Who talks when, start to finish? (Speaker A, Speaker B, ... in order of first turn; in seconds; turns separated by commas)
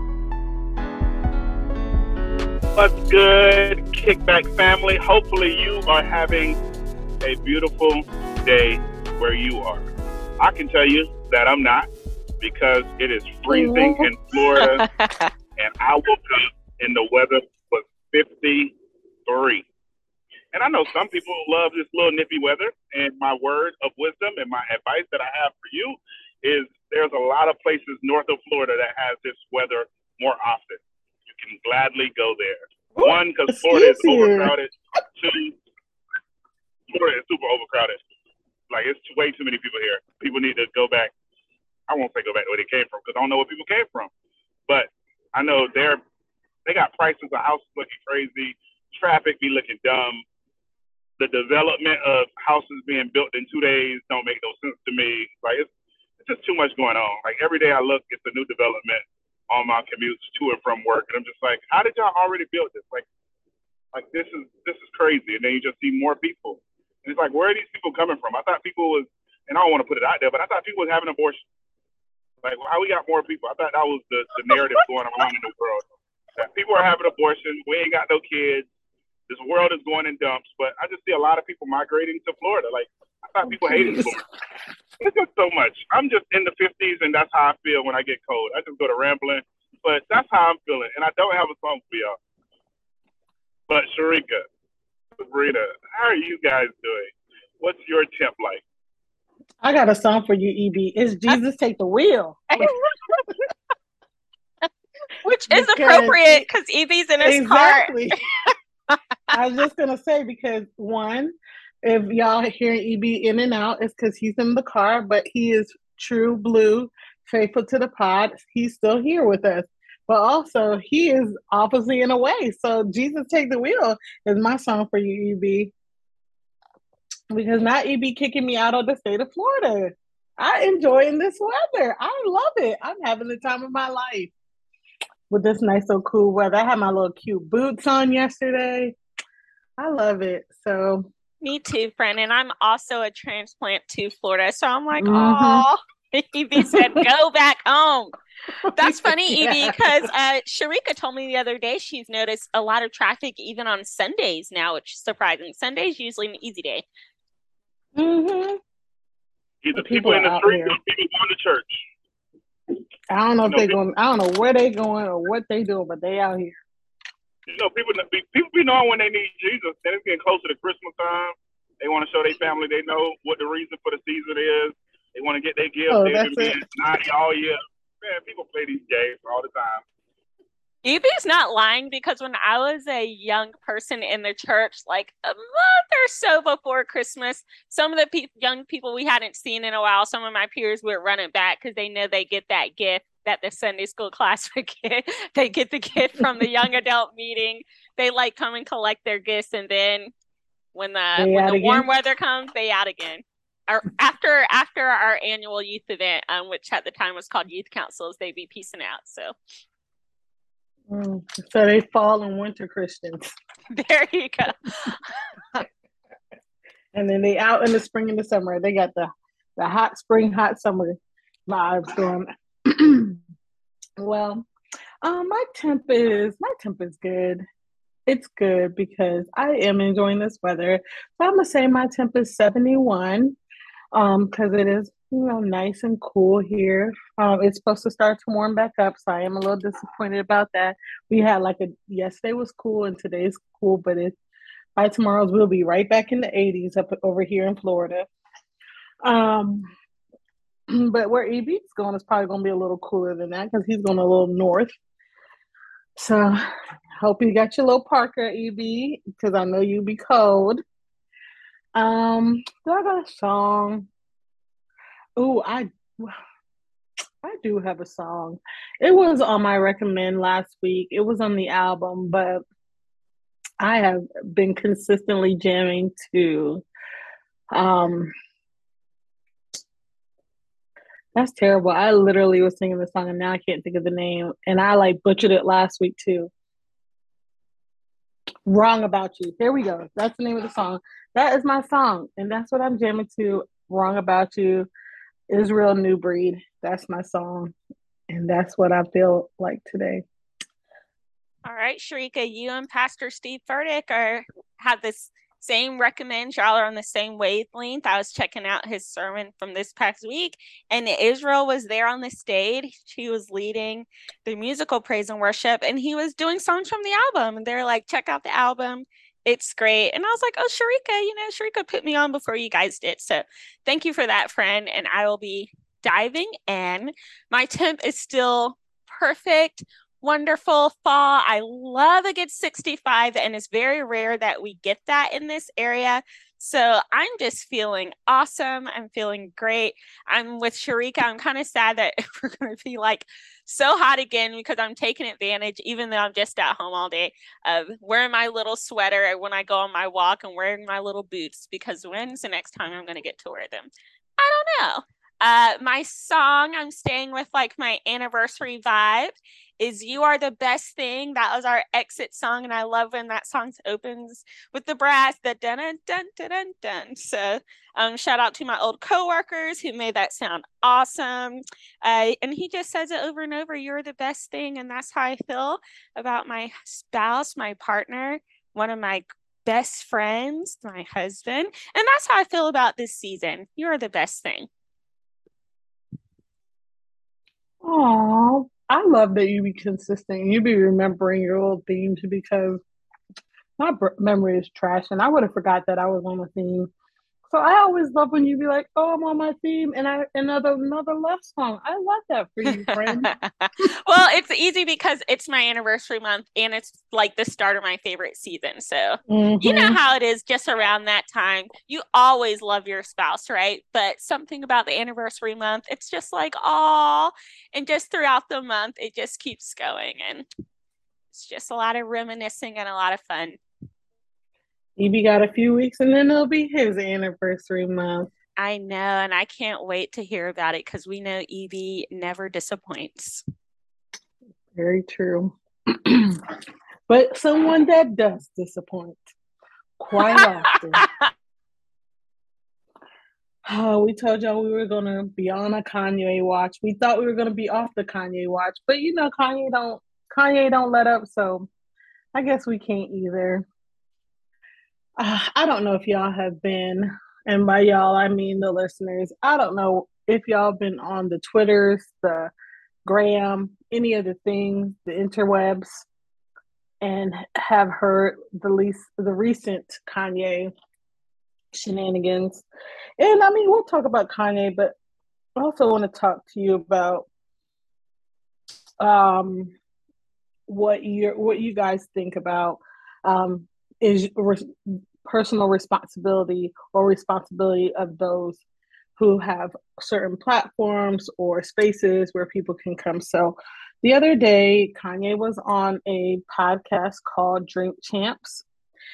Speaker A: 2.8-6.6, Speaker A: 7.2-9.9, Speaker A: 10.4-11.9, Speaker A: 12.4-14.8, Speaker B: 13.5-14.1, Speaker C: 14.6-15.3, Speaker A: 15.6-18.8, Speaker A: 19.3-19.7, Speaker A: 20.5-30.8, Speaker A: 31.4-35.6, Speaker B: 33.0-34.5, Speaker A: 36.9-38.0, Speaker A: 38.7-41.1, Speaker A: 41.9-44.1, Speaker A: 44.7-46.0, Speaker A: 46.7-50.2, Speaker A: 51.2-55.7, Speaker A: 56.2-63.0, Speaker A: 63.9-71.4, Speaker A: 72.4-75.8, Speaker A: 76.4-78.7, Speaker A: 79.3-84.2, Speaker B: 83.7-84.1, Speaker A: 85.0-92.2, Speaker A: 93.7-94.5, Speaker A: 95.2-98.6, Speaker B: 99.6-102.7, Speaker C: 102.5-102.8, Speaker C: 105.2-108.1, Speaker B: 105.5-106.5, Speaker B: 107.2-108.2, Speaker B: 109.3-125.7, Speaker B: 127.3-134.3, Speaker B: 135.3-139.0, Speaker B: 139.8-141.1, Speaker C: 141.4-148.2, Speaker B: 145.0-145.7, Speaker B: 146.6-147.0, Speaker C: 148.7-156.8, Speaker B: 148.8-149.9, Speaker B: 158.0-158.6, Speaker A: 159.6-161.8, Speaker B: 159.8-160.8, Speaker B: 163.1-166.6, Speaker A: 163.5-163.8, Speaker A: 167.5-179.8, Speaker B: 175.9-176.6, Speaker C: 180.8-200.1, Speaker C: 200.7-209.3, Speaker B: 201.2-201.9, Speaker B: 210.9-213.3, Speaker C: 213.7-215.0, Speaker B: 216.9-221.0, Speaker B: 221.5-223.2, Speaker B: 224.0-224.5, Speaker B: 225.0-227.4, Speaker B: 228.1-233.4, Speaker B: 233.9-244.2, Speaker B: 244.8-248.1, Speaker B: 249.0-249.7, Speaker B: 250.7-254.7, Speaker B: 256.0-256.4, Speaker B: 257.0-260.6, Speaker B: 261.8-263.9, Speaker B: 265.2-266.1, Speaker B: 267.2-272.4, Speaker B: 273.6-276.6, Speaker B: 277.5-278.1, Speaker B: 281.1-286.3, Speaker B: 288.5-294.7, Speaker B: 295.3-297.6, Speaker B: 298.1-300.0, Speaker C: 301.5-384.5, Speaker B: 387.6-392.6, Speaker B: 393.6-396.7, Speaker B: 397.3-403.1, Speaker C: 402.5-420.3, Speaker B: 409.1-409.8, Speaker C: 421.1-423.4, Speaker B: 424.8-428.1, Speaker C: 428.4-433.2, Speaker B: 434.5-436.2, Speaker B: 436.9-439.0, Speaker B: 439.8-440.9, Speaker C: 440.0-441.1, Speaker B: 443.5-451.5, Speaker B: 452.1-453.5, Speaker B: 455.0-462.3, Speaker B: 462.9-465.9, Speaker B: 466.8-470.5, Speaker B: 471.5-472.4, Speaker B: 473.0-474.7, Speaker B: 475.4-477.1, Speaker B: 478.8-479.5, Speaker B: 480.5-488.4, Speaker B: 489.0-498.4